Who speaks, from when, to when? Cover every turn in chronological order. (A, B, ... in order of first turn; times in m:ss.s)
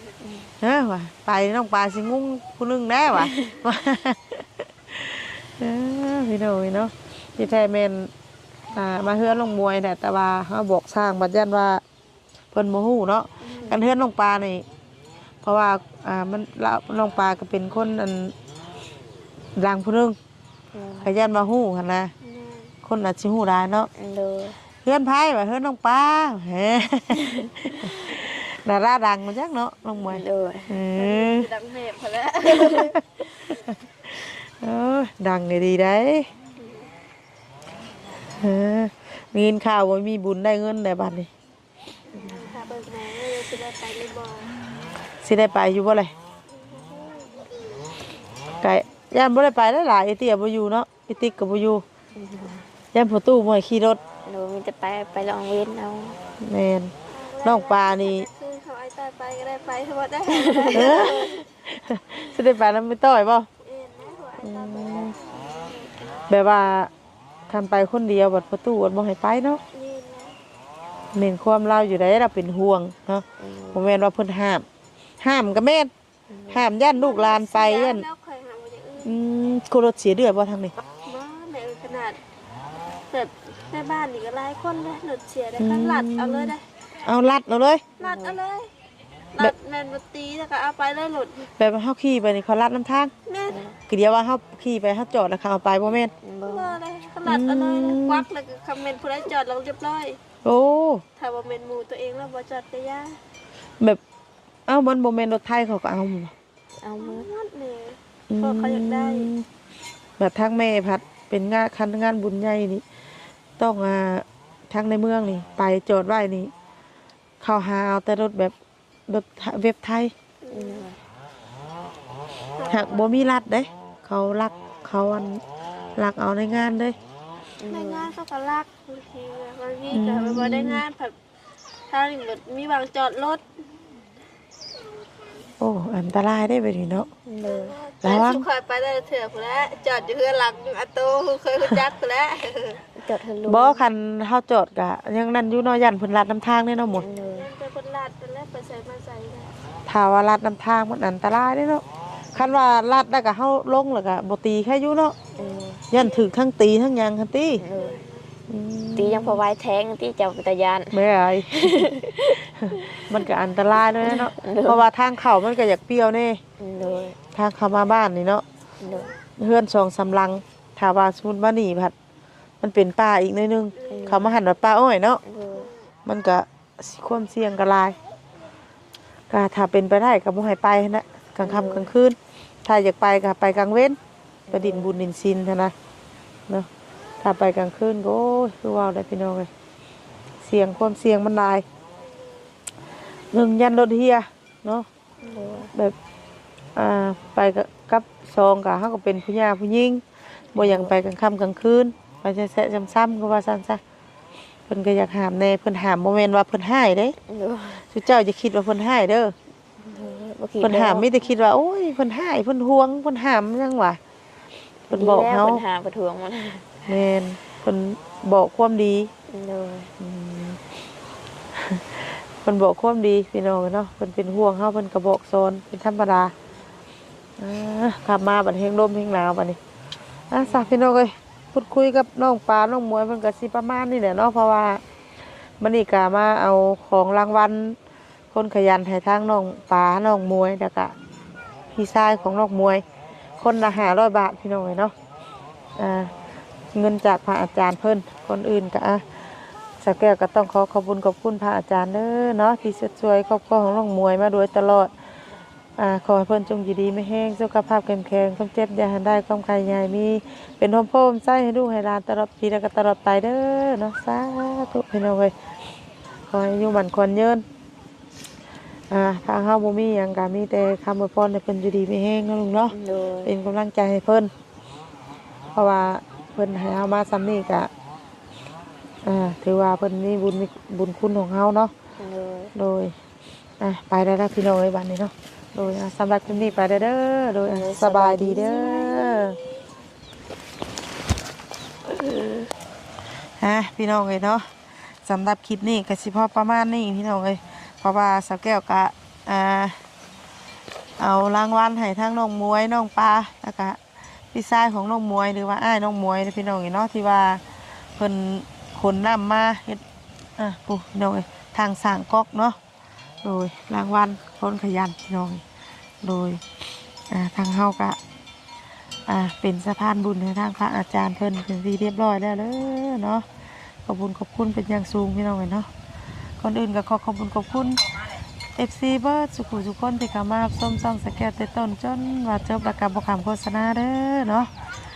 0:00.2-0:00.5 A
0:00.6-0:08.1 B
0:08.7-0:11.8 B
0:12.5-0:14.6 B
0:13.4-0:13.8 C
0:15.4-0:18.4 B
0:19.6-0:20.2 B
0:20.7-0:21.1 A
0:21.0-0:22.1 B
0:22.2-0:22.7 C
0:22.8-0:23.9 B
0:24.0-0:24.6 A
0:24.8-0:31.5 B
0:30.0-0:30.7 A
0:30.9-0:33.0 C
0:32.5-0:36.3 B
0:36.6-0:36.9 C
0:38.4-0:41.3 B
0:42.1-0:44.5 C
0:42.1-0:42.4 A
0:45.2-0:46.1 B
0:46.6-0:47.6 C
0:48.6-0:51.8 B
0:52.1-0:52.6 A
0:52.9-0:54.0 B
0:54.2-0:56.2 A
0:56.4-0:56.9 B
0:57.1-1:01.4 C
0:57.4-0:58.3 B
1:00.3-1:00.8 A
1:00.7-1:03.5 B
1:03.6-1:06.3 C
1:04.4-1:05.1 B
1:06.3-1:06.9 B
1:07.5-1:09.6 B
1:09.7-1:10.4 C
1:11.1-1:14.6 B
1:13.4-1:13.8 A
1:15.2-1:15.9 B
1:16.3-1:16.6 A
1:16.5-1:18.0 B
1:16.9-1:19.2 C
1:19.0-1:20.7 B
1:21.0-1:22.2 C
1:23.1-1:26.6 C
1:25.6-1:27.9 B
1:28.0-1:28.7 C
1:28.0-1:28.4 A
1:29.3-1:31.5 C
1:31.6-1:33.1 B
1:33.2-1:33.6 C
1:33.5-1:33.8 A
1:33.9-1:36.1 B
1:36.2-1:36.8 A
1:36.4-1:40.2 C
1:37.2-1:38.2 B
1:40.4-1:41.0 B
1:41.2-1:43.2 C
1:44.7-1:46.3 B
1:46.8-1:47.3 A
1:47.0-1:49.3 C
1:48.3-1:49.5 B
1:50.2-1:52.8 B
1:53.6-1:56.5 B
1:57.4-1:58.5 B
1:59.1-2:00.1 B
2:00.4-2:00.9 C
2:00.5-2:01.0 A
2:02.6-2:03.1 C
2:02.7-2:05.4 B
2:06.0-2:07.0 B
2:07.6-2:08.1 A
2:07.7-2:11.1 C
2:09.9-2:10.8 B
2:11.9-2:13.5 C
2:15.6-2:17.1 B
2:17.3-2:17.8 A
2:17.4-2:22.8 C
2:18.0-2:18.5 B
2:23.0-2:23.8 A
2:23.5-2:27.1 B
2:27.0-2:27.5 A
2:27.0-2:29.5 C
2:29.9-2:35.2 B
2:35.3-2:36.3 C
2:35.4-2:35.8 A
2:35.9-2:37.6 B
2:37.6-2:38.0 A
2:37.7-2:38.3 C
2:38.5-2:39.4 B
2:39.0-2:41.0 A
2:40.9-2:42.0 B
2:41.6-2:42.2 A
2:42.6-2:46.4 B
2:44.0-2:44.8 A
2:46.6-2:47.2 A
2:46.8-2:47.1 C
2:47.3-2:48.4 B
2:48.8-2:49.1 A
2:48.8-2:49.2 C
2:49.4-2:51.9 B
2:52.6-2:55.2 B
2:53.8-2:54.2 C
2:53.9-2:54.3 A
2:55.2-2:55.7 A
2:56.0-2:58.0 B
2:59.3-3:04.0 B
3:01.4-3:01.9 A
3:04.5-3:04.9 A
3:04.5-3:05.7 B
3:07.2-3:09.5 B
3:10.4-3:11.6 B
3:13.3-3:14.9 B
3:15.2-3:15.7 A
3:16.8-3:20.0 B
3:20.5-3:23.8 B
3:20.6-3:20.9 A
3:24.7-3:27.2 B
3:27.3-3:27.8 A
3:27.9-3:29.3 B
3:29.8-3:31.1 A
3:30.6-3:34.0 B
3:34.9-3:35.6 B
3:34.9-3:36.8 A
3:36.8-3:39.1 B
3:39.3-3:39.9 A
3:40.0-3:40.6 B
3:41.5-3:46.3 B
3:47.4-3:49.6 B
3:50.3-3:54.8 B
3:50.4-3:50.7 A
3:55.6-3:57.8 B
3:58.3-4:00.9 B
4:01.7-4:02.8 B
4:03.4-4:04.9 B
4:05.8-4:06.1 B
4:06.7-4:09.0 B
4:09.8-4:14.9 B
4:15.8-4:25.3 B
4:26.3-4:27.4 B
4:28.9-4:34.3 B
4:32.7-4:33.3 A
4:35.5-4:37.7 B
4:39.0-4:41.7 B
4:42.0-4:42.5 A
4:42.5-4:42.9 B
4:43.6-4:49.4 B
4:46.3-4:46.6 A
4:47.5-4:49.1 A
4:51.9-4:52.5 A
4:53.4-4:54.5 B
4:55.0-4:59.8 B
5:01.0-5:03.8 B
5:04.3-5:07.4 B
5:08.0-5:09.8 B
5:10.4-5:12.6 B
5:13.2-5:15.4 B
5:16.0-5:16.4 B
5:17.1-5:18.0 B
5:19.1-5:23.2 B
5:23.8-5:25.7 B
5:26.4-5:27.8 B
5:28.6-5:34.5 B